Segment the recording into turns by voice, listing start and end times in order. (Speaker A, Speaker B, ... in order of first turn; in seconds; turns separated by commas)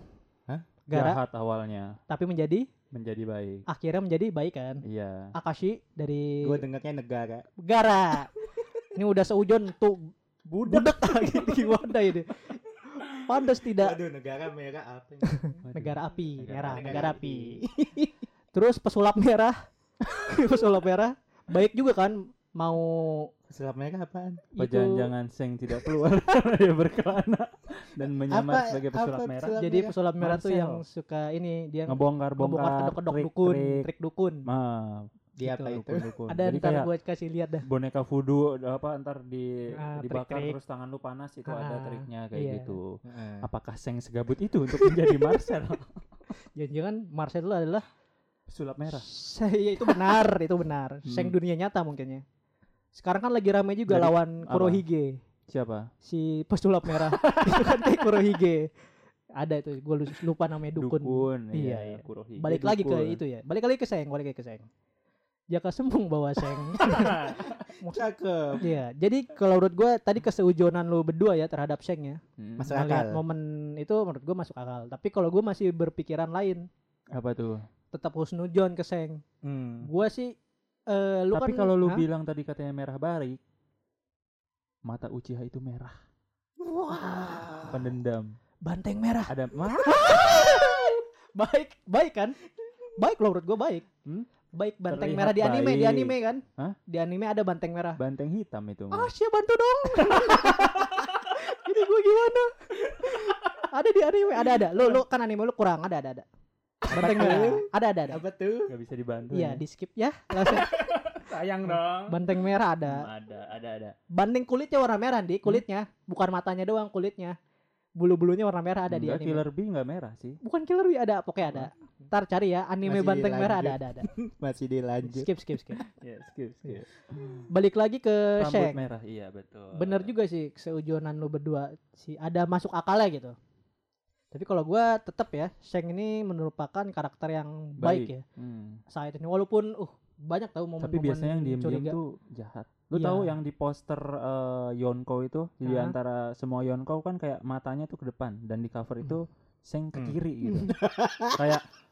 Speaker A: 0.9-1.2, Speaker B: 0.9-1.9, Speaker A: 2.1-2.7, Speaker B: 2.9-3.6, Speaker A: 3.7-4.8, Speaker B: 4.8-5.3, Speaker A: 5.3-6.6, Speaker C: 6.4-7.5, Speaker A: 7.6-8.3, Speaker A: 8.9-14.0, Speaker B: 10.6-11.5, Speaker C: 13.8-15.4, Speaker A: 15.3-17.6, Speaker B: 15.7-17.1, Speaker C: 16.7-18.1, Speaker A: 18.5-23.3, Speaker C: 23.5-24.5, Speaker A: 24.6-25.1, Speaker B: 24.6-29.6, Speaker C: 28.3-30.0, Speaker A: 29.6-34.4, Speaker B: 30.2-30.8, Speaker B: 31.9-33.9, Speaker B: 34.5-35.1, Speaker C: 35.4-36.1, Speaker A: 35.4-35.8, Speaker B: 35.6-36.9, Speaker A: 36.3-37.7, Speaker B: 37.6-46.0, Speaker A: 39.8-40.6, Speaker A: 41.5-42.8, Speaker C: 43.0-43.5, Speaker A: 44.8-45.4, Speaker A: 46.5-47.8, Speaker B: 48.5-49.0, Speaker A: 48.9-52.2, Speaker B: 51.1-51.4, Speaker A: 53.0-55.2, Speaker B: 53.9-54.8, Speaker B: 55.5-55.9, Speaker A: 56.0-58.7, Speaker B: 56.9-58.2, Speaker A: 59.4-64.7, Speaker B: 60.8-63.2, Speaker A: 65.5-68.1, Speaker B: 66.7-67.7, Speaker C: 67.9-68.6, Speaker A: 68.6-76.7, Speaker B: 72.4-72.7, Speaker C: 72.6-73.2, Speaker B: 77.1-77.6, Speaker A: 77.9-79.2, Speaker C: 79.4-79.9, Speaker A: 79.8-80.3, Speaker A: 80.9-82.0, Speaker B: 81.3-83.4, Speaker B: 84.9-86.0, Speaker A: 86.6-87.8, Speaker B: 87.7-88.3, Speaker A: 88.7-92.4, Speaker B: 89.3-90.6, Speaker A: 93.0-93.9, Speaker A: 94.5-98.0, Speaker B: 94.9-96.8, Speaker B: 98.0-99.1, Speaker A: 98.9-106.3, Speaker B: 100.0-101.0, Speaker B: 103.1-103.5, Speaker A: 106.9-108.2, Speaker C: 106.9-108.7, Speaker B: 108.7-109.6, Speaker A: 109.3-110.9, Speaker B: 110.4-114.0, Speaker A: 111.6-113.1, Speaker A: 114.1-117.4, Speaker A: 118.0-119.4, Speaker B: 118.9-120.4, Speaker A: 120.4-124.1, Speaker C: 122.8-125.3, Speaker A: 125.0-125.8, Speaker B: 125.8-127.5, Speaker A: 127.5-128.8, Speaker B: 128.4-130.1, Speaker A: 129.8-133.3, Speaker A: 134.3-138.2, Speaker B: 137.8-138.8, Speaker A: 138.9-142.0, Speaker B: 140.8-150.8, Speaker A: 142.9-143.3, Speaker A: 145.6-145.9, Speaker C: 149.9-151.4, Speaker B: 151.3-151.7